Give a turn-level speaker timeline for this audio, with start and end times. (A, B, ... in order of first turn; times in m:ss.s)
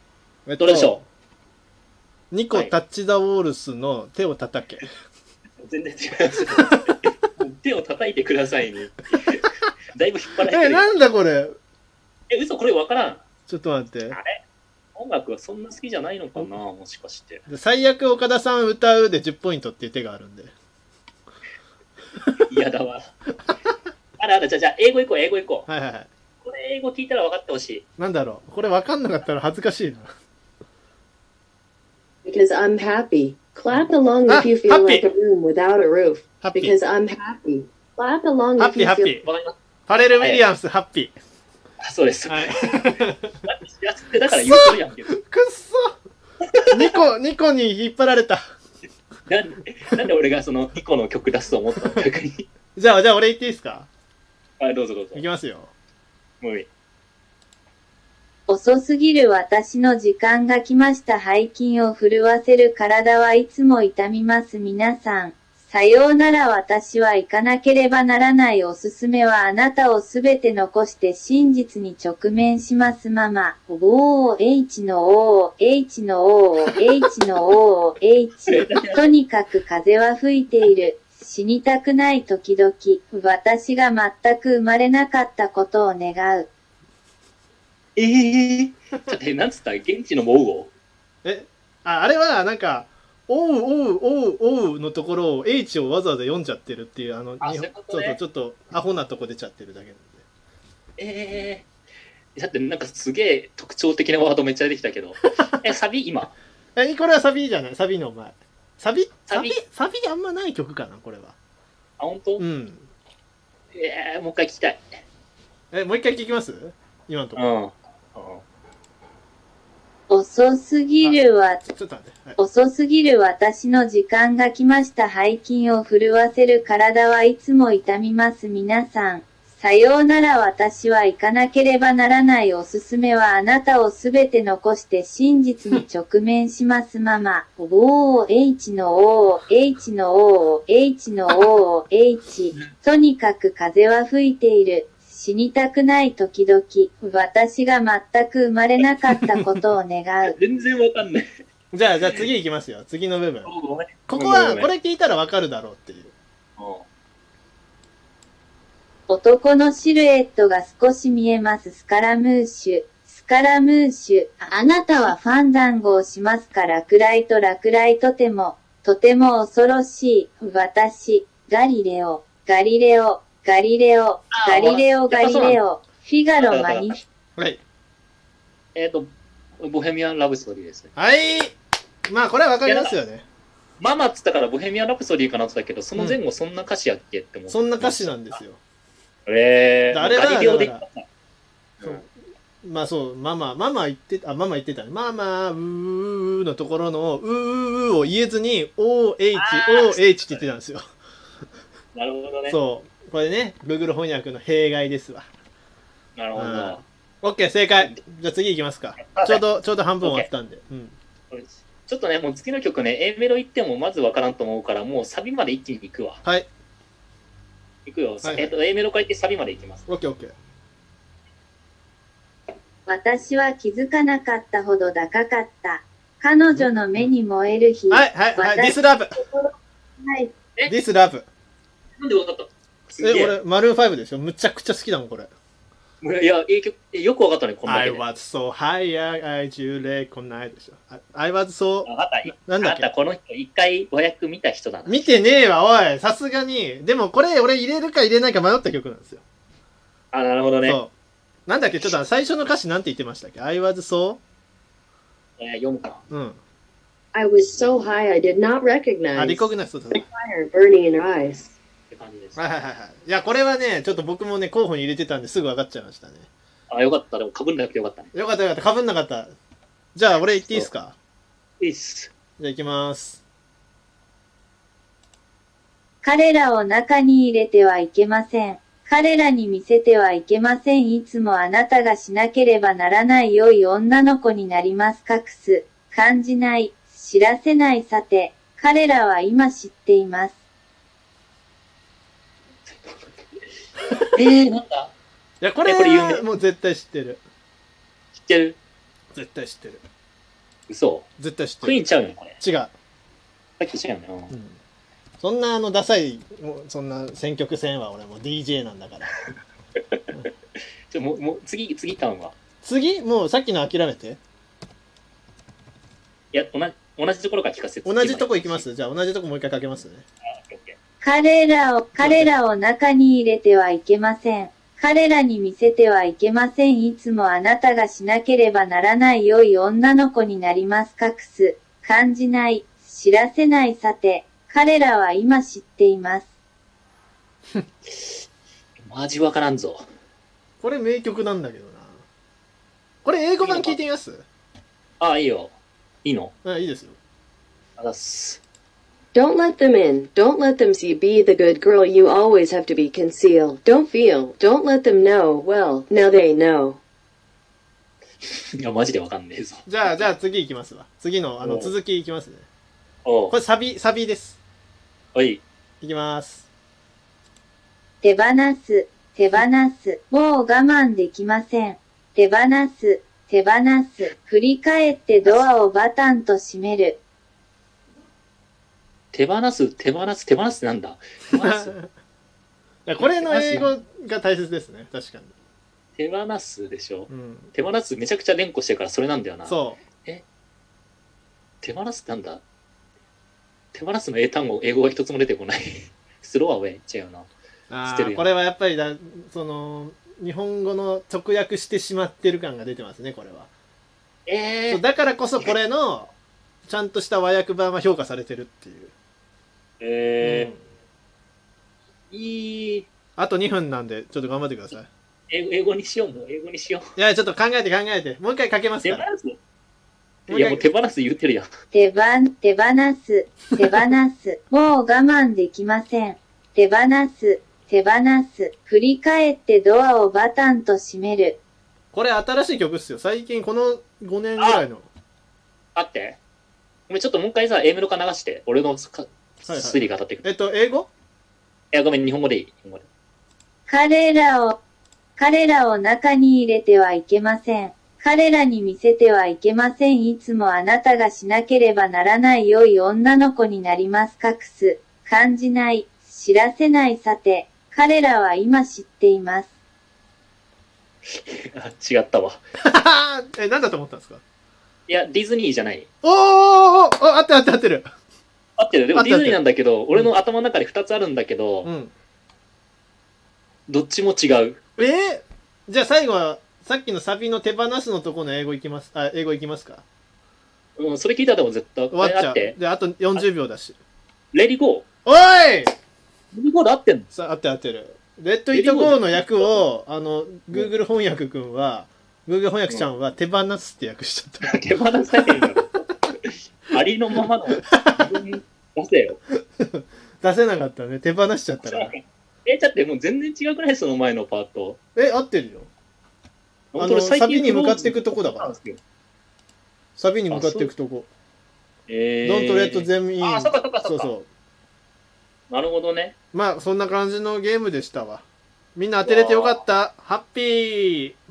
0:00.5-0:01.1 A
0:00.6-0:01.0 B
0:02.3-0:04.9 A
0:05.6-0:10.9 B
0:10.5-0:11.6 A
0:12.3-0:13.2 B
0:13.5-0:14.2 A
0:14.1-0:14.4 B
0:15.0-0:17.4 B
0:17.5-0:20.5 A
0:22.5-0:23.1 B
0:24.2-0:25.7 B
0:25.7-0:26.1 A
0:26.4-0:27.8 B
0:28.0-0:30.1 A
0:32.2-0:39.3 C
0:34.3-0:35.1 A
0:36.4-0:36.8 A
0:38.6-0:39.2 A
0:39.2-0:39.6 B
0:39.9-0:41.2 A
0:40.2-0:40.4 B
0:41.8-0:45.2 B
0:42.3-0:43.4 A
0:44.3-0:45.9 A
0:46.6-0:46.8 B
0:46.7-0:48.4 A
0:49.3-0:52.5 B
0:52.8-0:53.9 A
0:54.6-0:55.2 B
0:55.1-0:55.7 A
0:56.4-0:56.7 B
0:58.5-1:26.5 D
1:18.5-1:19.1 B
1:28.0-1:30.7 B
1:31.2-1:40.2 A
1:37.4-1:38.2 B
1:41.0-1:41.7 B
1:42.4-1:46.4 B
1:46.8-1:51.4 A
1:49.3-1:49.6 B
1:52.0-1:52.4 B
1:52.4-1:52.9 A
1:53.7-1:55.0 B
1:55.7-1:57.5 A
1:57.4-1:58.4 B
2:00.1-2:01.6 D
2:01.0-2:02.4 A
2:02.4-2:30.3 D
2:30.3-2:31.3 B
2:31.7-2:33.5 A
2:33.4-2:34.7 B
2:34.1-2:36.1 A
2:36.6-2:36.8 B
2:39.1-2:57.0 D
2:54.3-2:55.6 B
2:56.4-2:56.9 B
2:58.8-3:00.9 B
3:01.0-3:01.6 A
3:02.1-3:03.2 A
3:02.6-3:03.0 B
3:03.8-3:08.4 B
3:07.5-3:08.6 A
3:09.3-3:11.0 B
3:09.9-3:10.8 A
3:11.8-3:12.1 A
3:12.6-3:20.9 A
3:19.4-3:20.5 B
3:22.0-3:22.6 B
3:22.5-3:25.3 A
3:26.2-3:26.8 B
3:26.4-3:31.0 A
3:29.0-3:29.4 B
3:30.0-3:30.3 B
3:31.3-3:36.2 B
3:37.9-3:39.8 B
3:38.2-3:38.5 A
3:39.9-3:40.3 A
3:42.9-3:50.3 D
3:46.5-3:47.1 A
3:47.9-3:49.2 A
3:50.7-3:51.3 A
3:52.0-3:53.4 B
3:53.0-3:55.3 A
3:56.0-3:58.0 B
3:57.7-4:02.9 A
4:01.8-4:05.1 B
4:04.9-4:09.2 A
4:10.1-4:10.8 B
4:10.6-4:10.9 A
4:11.5-4:14.2 A
4:15.4-4:16.0 B
4:16.1-4:16.4 A
4:17.1-4:21.6 C
4:19.1-4:20.0 A
4:21.9-4:22.4 B
4:22.4-4:26.3 A
4:26.7-4:28.1 B
4:28.1-4:29.3 A
4:30.0-4:31.0 A
4:31.6-4:32.1 B
4:32.4-4:33.2 A
4:36.0-4:50.3 D
4:54.1-4:54.9 B
4:55.4-4:57.2 A
4:55.6-4:56.2 B
4:58.2-4:58.6 B
4:59.1-4:59.8 A
5:00.7-5:01.1 B
5:01.2-5:01.8 A
5:01.6-5:02.3 B
5:02.4-5:02.7 A
5:03.6-5:04.3 B
5:04.3-5:04.6 A
5:05.2-5:09.2 A
5:09.8-5:10.2 B
5:10.9-5:12.4 B
5:12.6-5:14.2 A
5:16.3-5:18.6 B
5:17.8-5:20.0 A
5:20.4-5:20.8 B
5:21.0-5:36.2 D
5:22.0-5:22.3 A
5:38.9-5:39.8 B
5:40.6-5:42.0 A
5:43.0-5:44.2 A
5:43.4-5:43.8 B
5:45.0-5:46.3 B
5:46.4-5:47.0 A
5:47.8-5:48.4 B
5:49.1-5:56.8 C
5:58.2-6:00.1 B
5:59.7-6:02.5 A
6:01.4-6:01.7 B
6:03.0-6:03.4 B
6:03.3-6:04.4 A
6:05.2-6:05.4 B
6:05.8-6:06.5 A
6:08.0-6:17.0 D
6:19.1-6:21.8 B
6:21.4-6:21.9 A
6:22.9-6:25.3 A
6:23.0-6:23.7 B
6:26.0-6:30.2 B
6:27.1-6:27.5 A
6:29.4-6:29.8 A
6:31.6-6:32.4 B
6:33.7-6:37.3 B
6:37.7-6:43.5 A
6:37.8-6:38.3 B
6:44.3-6:44.8 B
6:44.7-6:46.1 A
6:46.7-6:48.9 A
6:49.8-6:50.6 B
6:50.2-6:50.6 A
6:52.1-6:52.9 B
6:53.2-6:54.9 A
6:55.3-6:56.9 B
6:57.0-6:59.0 A
6:58.8-6:59.4 B
7:00.3-7:00.7 A
7:00.3-7:01.5 B
7:01.7-7:11.4 D
7:11.9-7:14.9 A
7:14.4-7:14.6 B
7:15.8-7:16.2 B
7:16.9-7:20.2 B
7:19.5-7:20.9 A
7:21.7-7:22.9 B
7:23.7-7:24.6 D
7:25.2-7:39.5 D
7:41.1-7:42.4 B
7:42.6-7:44.2 A
7:44.9-7:45.9 B
7:46.0-7:47.9 A
7:48.6-7:51.7 B
7:49.0-7:49.4 A
7:51.6-7:51.9 A
7:53.7-7:54.6 B
7:54.8-7:59.8 A
8:00.8-8:02.6 B
8:01.9-8:03.8 A
8:04.3-8:04.9 B
8:05.1-8:05.7 A
8:06.3-8:07.1 B
8:07.1-8:14.6 A
8:08.5-8:09.6 B
8:14.4-8:19.2 B
8:19.6-8:21.9 A
8:21.6-8:24.8 B
8:25.0-8:25.7 A
8:26.7-8:28.8 B
8:26.8-8:28.6 A
8:30.0-8:31.1 A
8:30.3-8:30.7 B
8:31.9-8:34.1 B
8:32.2-8:34.3 A
8:35.5-8:36.2 B
8:36.3-8:38.2 A
8:38.8-8:41.2 A
8:39.0-8:39.6 B